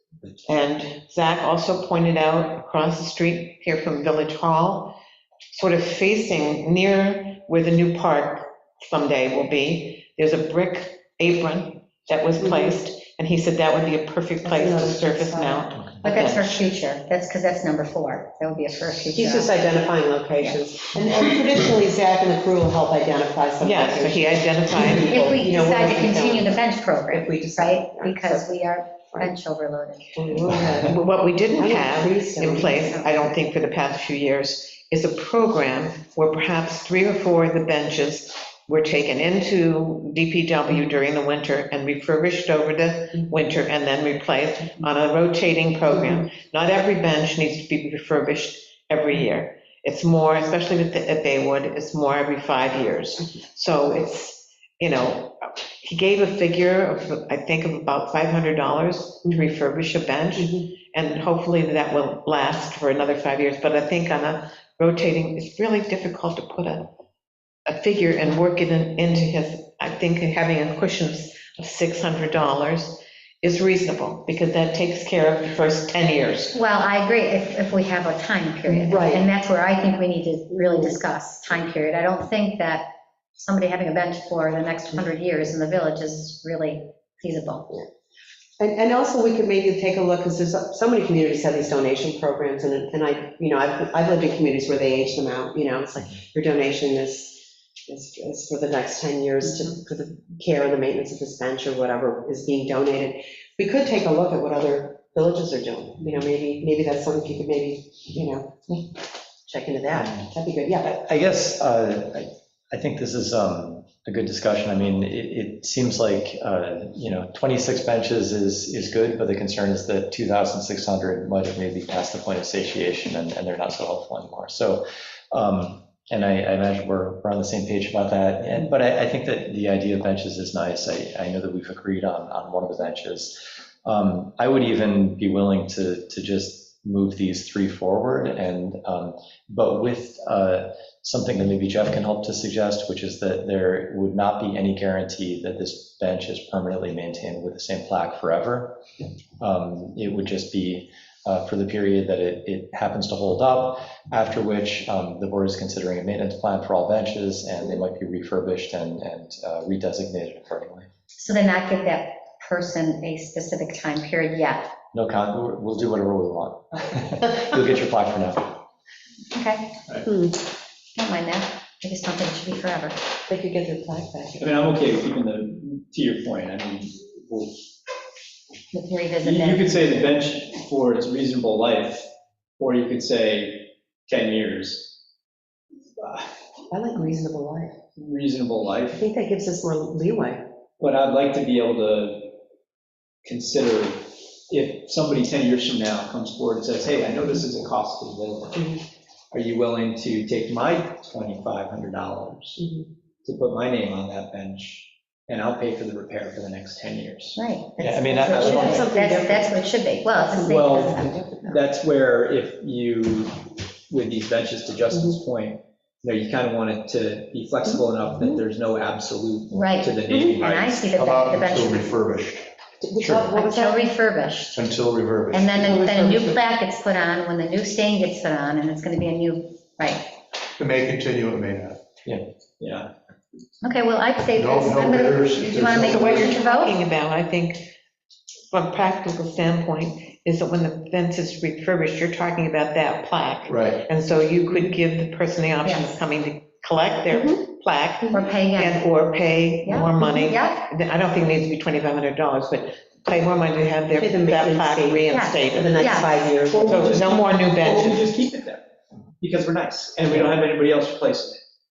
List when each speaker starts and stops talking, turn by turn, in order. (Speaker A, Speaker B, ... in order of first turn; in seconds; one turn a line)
Speaker A: 0.5-5.0
Speaker A: 5.5-16.6
Speaker B: 12.4-12.7
Speaker B: 14.4-15.7
Speaker C: 16.0-19.6
Speaker B: 18.9-28.4
Speaker A: 23.6-25.2
Speaker C: 25.1-30.2
Speaker B: 29.1-29.3
Speaker B: 30.2-31.0
Speaker A: 30.8-66.9
Speaker B: 31.6-32.8
Speaker C: 32.8-33.3
Speaker B: 60.4-60.7
Speaker A: 67.7-76.5
Speaker C: 76.5-87.8
Speaker B: 78.7-79.2
Speaker B: 80.6-81.0
Speaker B: 88.6-111.0
Speaker D: 110.0-110.3
Speaker D: 110.8-148.8
Speaker D: 149.4-160.9
Speaker C: 161.2-164.7
Speaker D: 164.9-168.6
Speaker C: 169.3-169.8
Speaker B: 170.1-170.3
Speaker C: 170.9-173.0
Speaker B: 173.3-174.5
Speaker E: 174.4-177.6
Speaker C: 178.7-180.2
Speaker E: 179.2-182.1
Speaker E: 182.6-185.0
Speaker E: 186.0-186.3
Speaker B: 186.7-187.8
Speaker E: 188.0-189.0
Speaker B: 188.9-190.4
Speaker E: 190.8-192.4
Speaker E: 193.2-198.7
Speaker B: 198.6-198.8
Speaker E: 199.3-202.6
Speaker B: 202.6-202.8
Speaker E: 203.2-207.4
Speaker C: 207.4-211.2
Speaker D: 207.8-208.8
Speaker B: 208.4-211.6
Speaker E: 210.6-211.0
Speaker E: 211.5-220.9
Speaker B: 214.9-215.2
Speaker B: 217.7-218.4
Speaker C: 219.5-221.9
Speaker B: 220.1-220.4
Speaker F: 221.0-222.5
Speaker B: 222.8-223.9
Speaker D: 223.0-223.3
Speaker C: 223.2-224.7
Speaker F: 224.6-225.8
Speaker C: 225.3-230.1
Speaker B: 225.7-226.4
Speaker F: 230.6-231.8
Speaker D: 232.1-232.9
Speaker C: 233.6-236.8
Speaker F: 234.3-236.3
Speaker A: 235.9-237.7
Speaker A: 238.5-256.1
Speaker F: 243.5-243.8
Speaker C: 245.6-246.0
Speaker B: 247.1-247.4
Speaker C: 248.1-248.8
Speaker C: 249.7-250.7
Speaker B: 254.0-257.0
Speaker C: 255.1-256.2
Speaker E: 256.5-258.6
Speaker A: 256.6-258.0
Speaker E: 259.2-261.4
Speaker D: 260.1-260.4